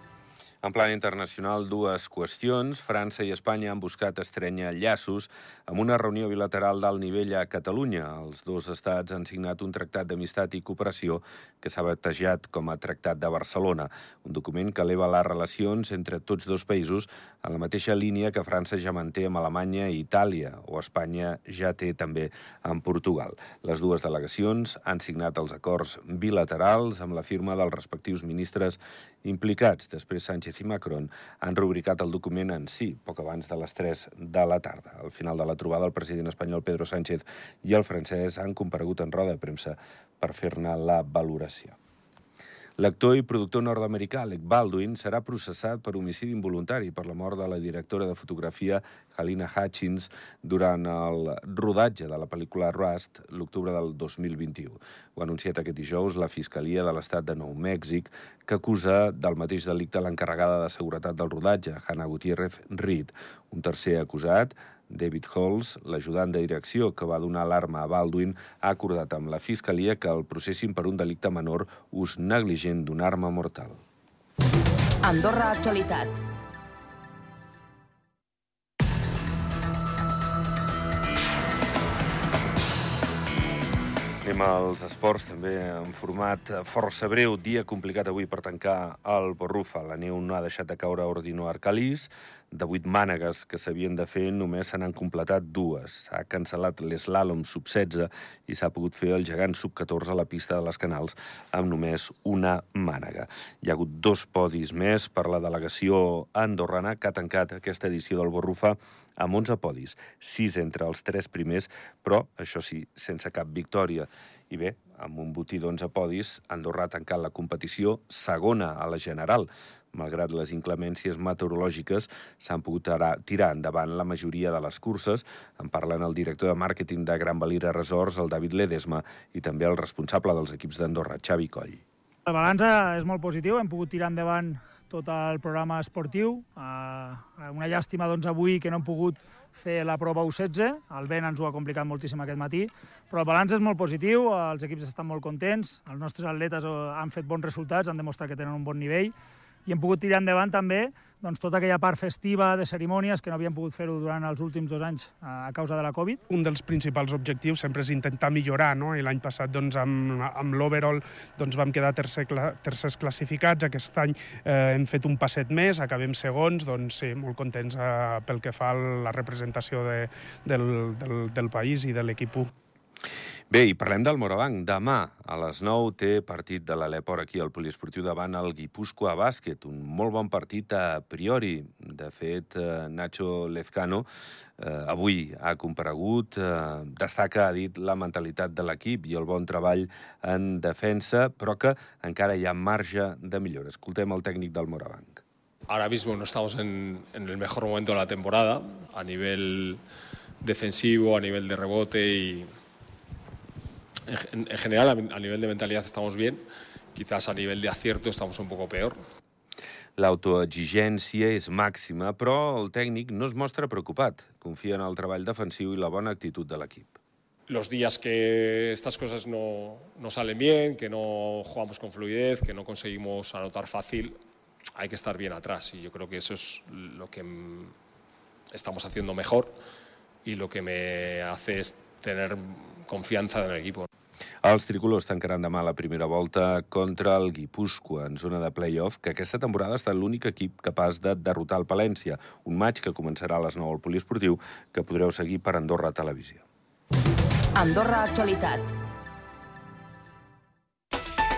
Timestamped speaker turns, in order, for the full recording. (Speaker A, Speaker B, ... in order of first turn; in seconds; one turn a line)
Speaker A: 0.6-41.8
Speaker A: 42.8-73.8
Speaker B: 75.0-76.1
Speaker A: 84.2-131.8
Speaker C: 132.3-149.2
Speaker C: 149.7-156.2
Speaker D: 156.3-172.5
Speaker A: 173.5-184.1
Speaker A: 184.6-195.2
Speaker E: 195.7-199.8
Speaker E: 200.4-202.5
Speaker E: 204.1-209.0
Speaker A: 210.0-217.0
Speaker E: 217.5-224.2
Speaker E: 224.8-227.8
Speaker E: 228.5-229.5
Speaker E: 230.2-233.9
Speaker A: 234.4-246.4
Speaker B: 247.6-248.7